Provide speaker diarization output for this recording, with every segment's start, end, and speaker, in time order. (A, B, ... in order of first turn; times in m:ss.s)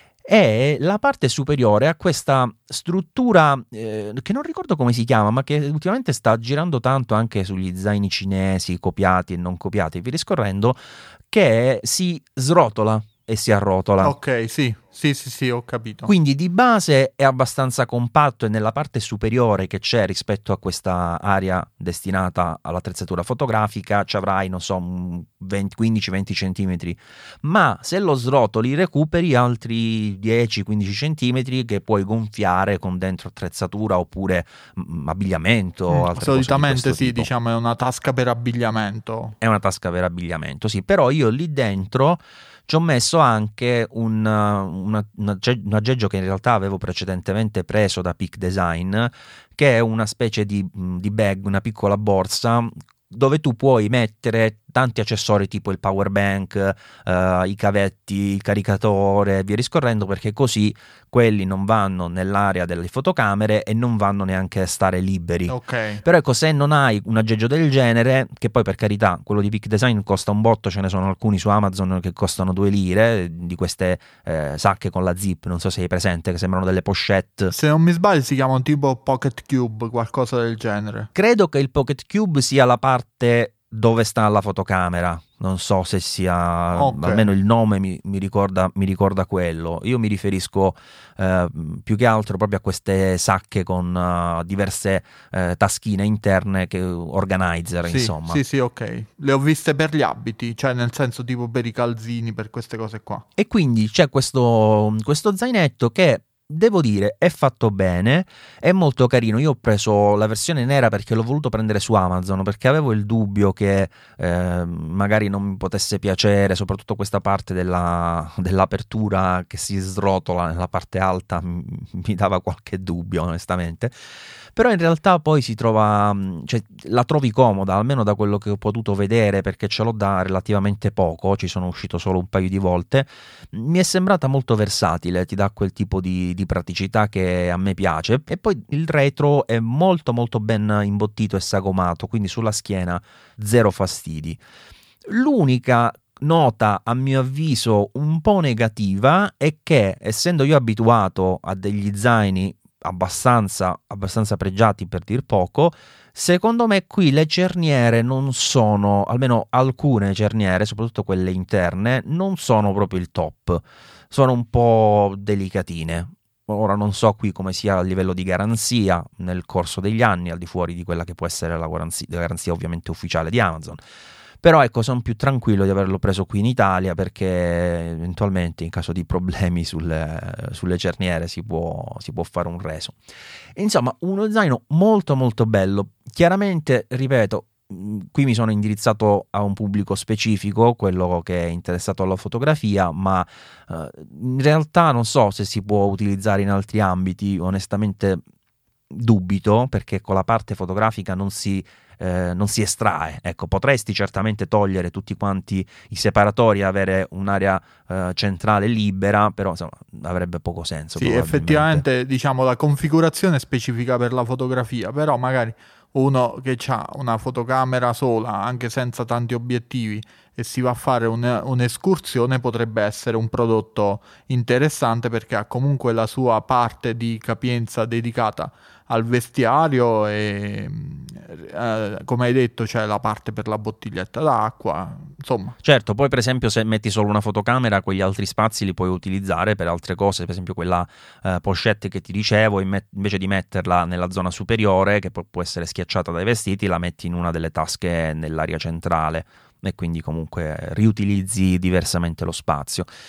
0:00.2-0:10.8 A
0:11.3-0:14.2 A
0:14.0-0:16.1 B
0:16.1-0:37.3 A
0:35.9-0:39.4 B
0:39.4-1:17.5 A
1:05.5-1:06.0 B
1:17.5-1:21.1 B
1:21.2-1:38.4 A
1:26.7-1:27.3 B
1:37.9-1:43.2 B
1:43.4-2:03.9 A
2:04.6-2:24.4 A
2:25.1-2:53.8 A
2:54.4-3:03.0 A
3:03.6-3:18.2 A
3:18.9-3:31.8 A
3:31.0-3:55.6 B
3:55.6-4:12.9 A